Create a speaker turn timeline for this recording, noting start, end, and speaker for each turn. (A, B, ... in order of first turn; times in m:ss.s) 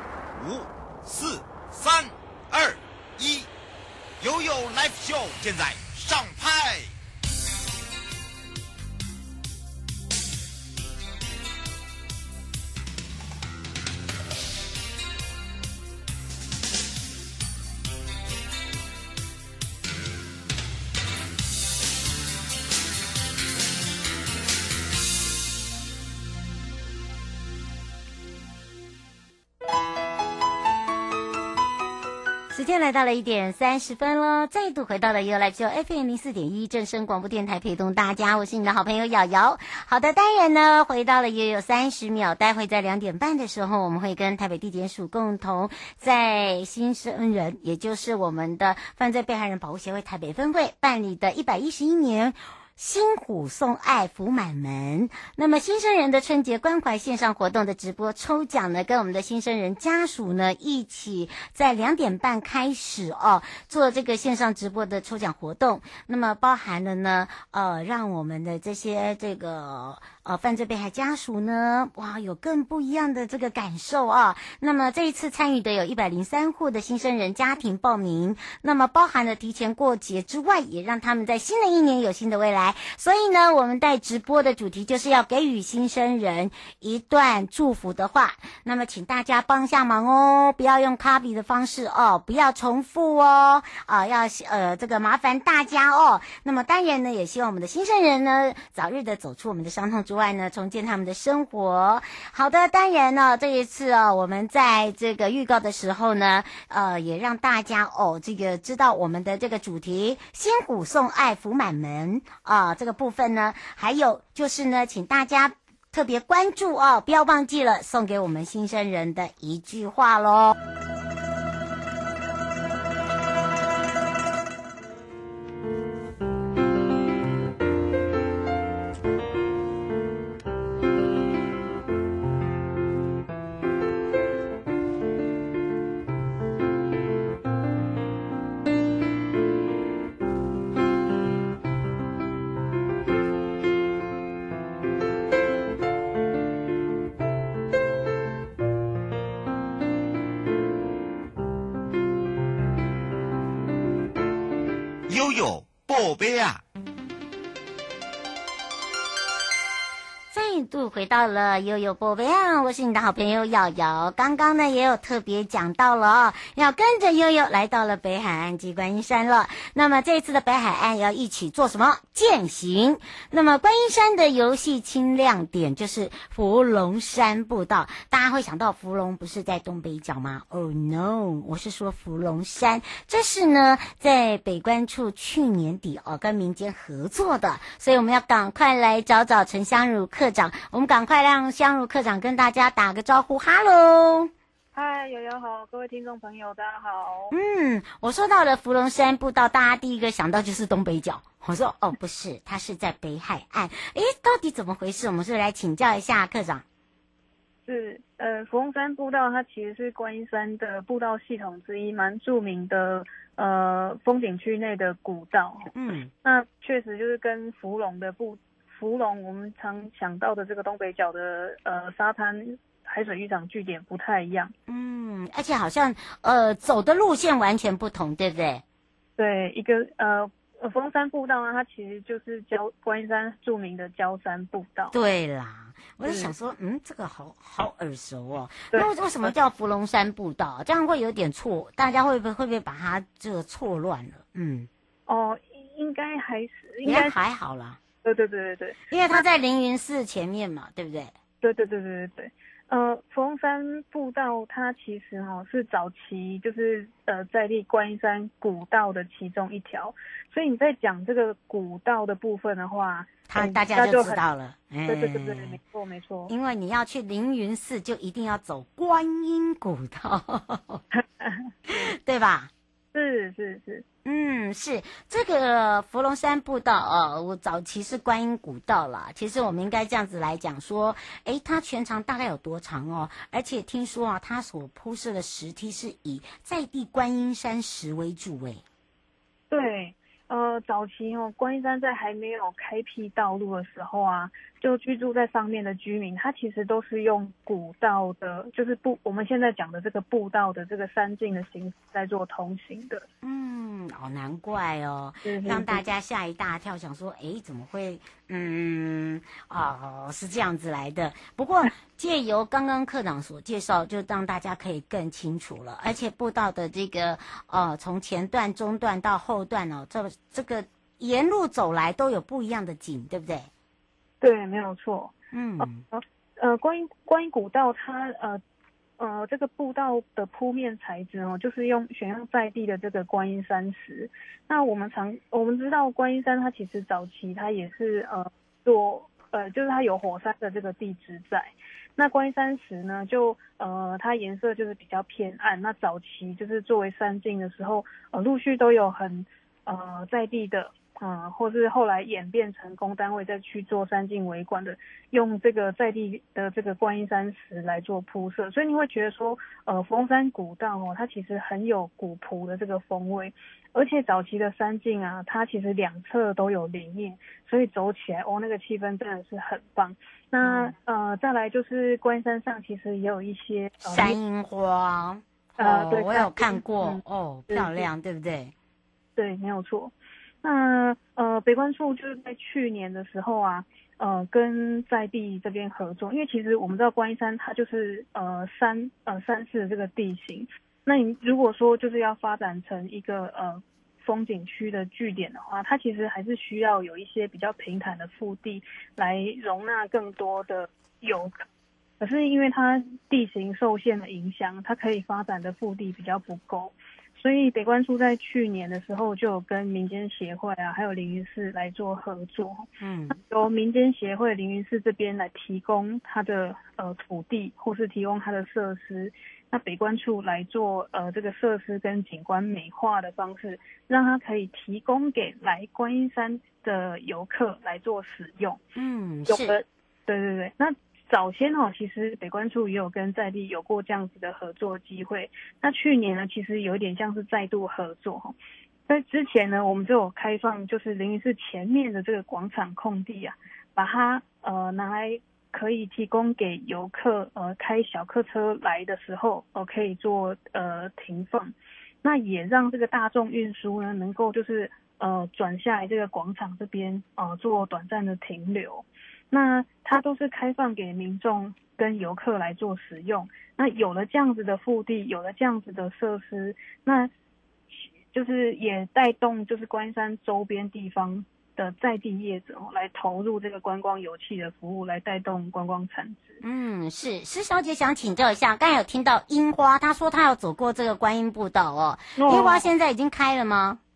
0:00.3-0:03.5 A
0:04.2-0:06.9 A
0:32.5-2:00.6 B
2:35.1-2:36.6 A
2:40.3-3:14.3 B
3:14.7-3:17.3 C
3:17.3-3:26.6 B
3:27.7-3:35.7 C
3:35.8-3:36.1 B
3:36.2-3:44.5 C
3:44.7-3:48.6 B
3:49.2-3:54.9 C
3:54.9-4:04.7 B
3:56.0-3:56.3 C
3:58.7-3:59.3 C
4:05.1-4:07.2 C
4:06.8-4:07.8 B
4:08.0-4:09.2 C
4:08.9-4:11.1 B
4:11.4-4:24.2 C
4:23.3-4:25.6 B
4:24.9-4:26.3 C
4:26.3-4:30.8 B
4:31.0-4:31.9 C
4:31.7-4:32.5 B
4:32.9-4:33.8 C
4:34.0-4:48.6 B
4:49.5-5:03.0 C
5:03.2-5:23.5 B
5:05.2-5:05.8 C
5:24.2-5:28.4 C
5:25.3-5:25.8 B
5:29.0-6:14.2 C
6:10.4-6:10.7 B
6:13.8-6:18.5 B
6:15.6-6:17.9 C
6:19.2-6:41.4 C
6:42.0-7:08.6 C
6:52.8-6:53.2 B
7:08.8-7:09.6 B
7:09.3-7:18.4 C
7:18.9-7:47.1 C
7:47.7-7:56.4 C
7:56.4-8:03.8 B
8:02.2-8:02.7 C